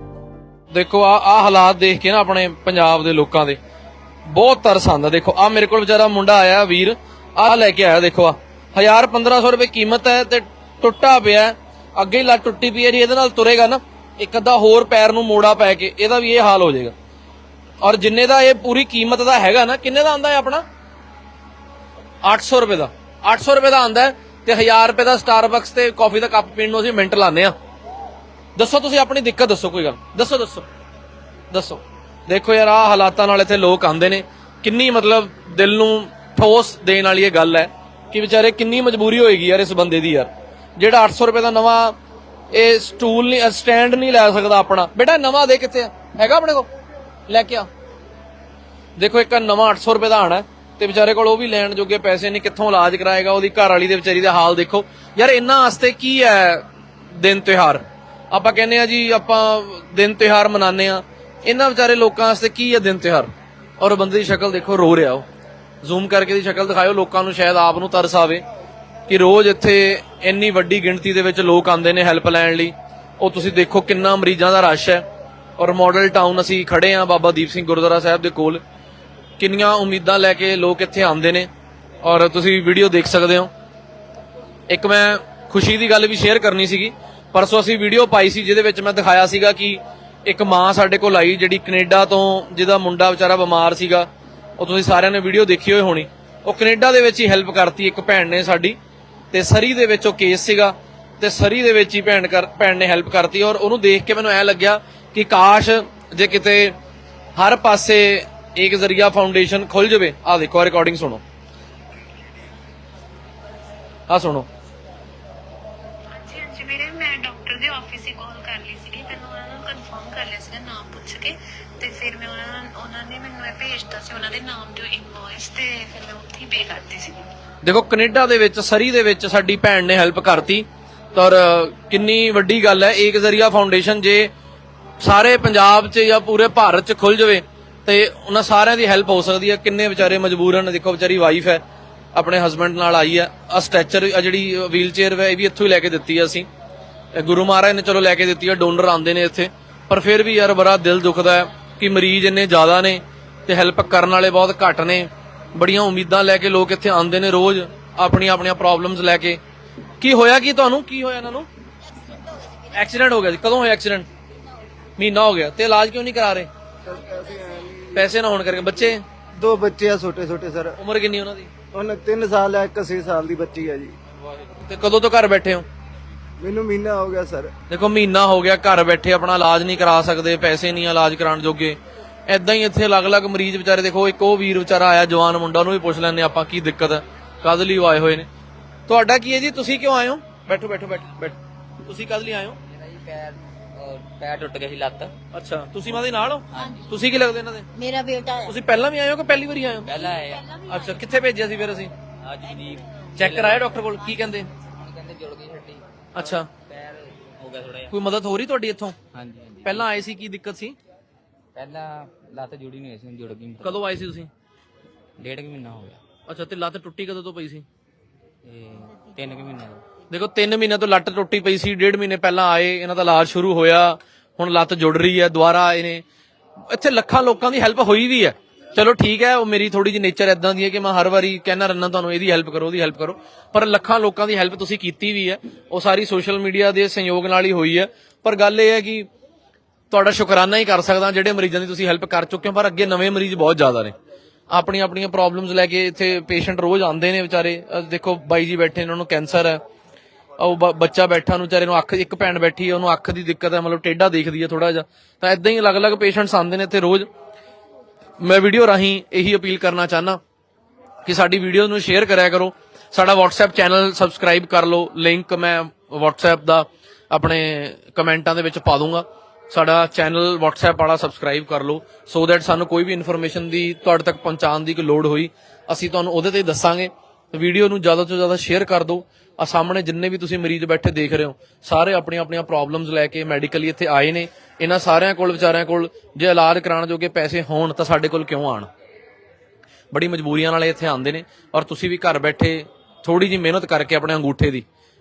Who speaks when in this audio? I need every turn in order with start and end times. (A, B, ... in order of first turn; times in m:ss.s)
0:00.7-0:03.6 A
0:04.3-0:16.9 A
0:17.8-0:20.6 A
0:22.2-0:27.5 A
0:28.6-0:30.7 A
0:31.5-0:42.0 A
0:42.5-0:46.7 A
0:47.3-0:47.7 A
0:49.0-1:05.3 A
1:05.8-1:08.4 A
1:09.1-1:15.0 A
1:15.6-1:18.6 A
1:19.4-1:21.5 A
1:22.0-1:23.5 A
1:24.7-1:34.1 A
1:34.6-1:38.8 A
1:39.3-1:46.7 A
1:47.4-1:51.2 A
1:54.1-1:54.5 A
1:56.2-2:07.1 B
2:07.6-2:14.3 A
2:15.0-2:21.6 A
2:22.1-2:26.5 A
2:27.1-2:39.4 A
2:40.0-2:41.5 A
2:42.7-2:44.1 A
2:45.0-2:46.5 A
2:46.8-2:48.1 C
2:47.9-2:49.0 A
2:49.4-2:50.8 C
2:50.8-2:51.5 A
2:51.7-2:54.0 C
2:54.4-2:55.6 A
2:56.4-2:57.5 C
2:57.7-3:01.8 A
3:02.3-3:08.3 A
3:08.9-3:12.6 A
3:12.7-3:15.1 D
3:15.3-3:17.7 A
3:16.5-3:16.9 D
3:17.8-3:18.5 B
3:18.4-3:19.9 A
3:19.8-3:20.6 D
3:20.6-3:21.9 A
3:22.2-3:23.6 D
3:23.2-3:24.5 A
3:24.6-3:27.9 D
3:26.2-3:26.5 A
3:27.9-3:29.0 A
3:29.1-3:29.8 D
3:29.6-3:30.8 A
3:31.6-3:33.8 D
3:33.6-3:34.3 A
3:35.2-3:36.0 D
3:36.3-3:37.6 A
3:38.4-3:39.8 D
3:40.1-3:46.0 A
3:46.7-3:59.1 A
3:59.9-4:04.0 A
4:04.5-4:09.6 A
4:10.4-4:17.1 A
4:18.2-4:20.2 A
4:21.0-4:48.7 A
4:49.9-4:54.6 A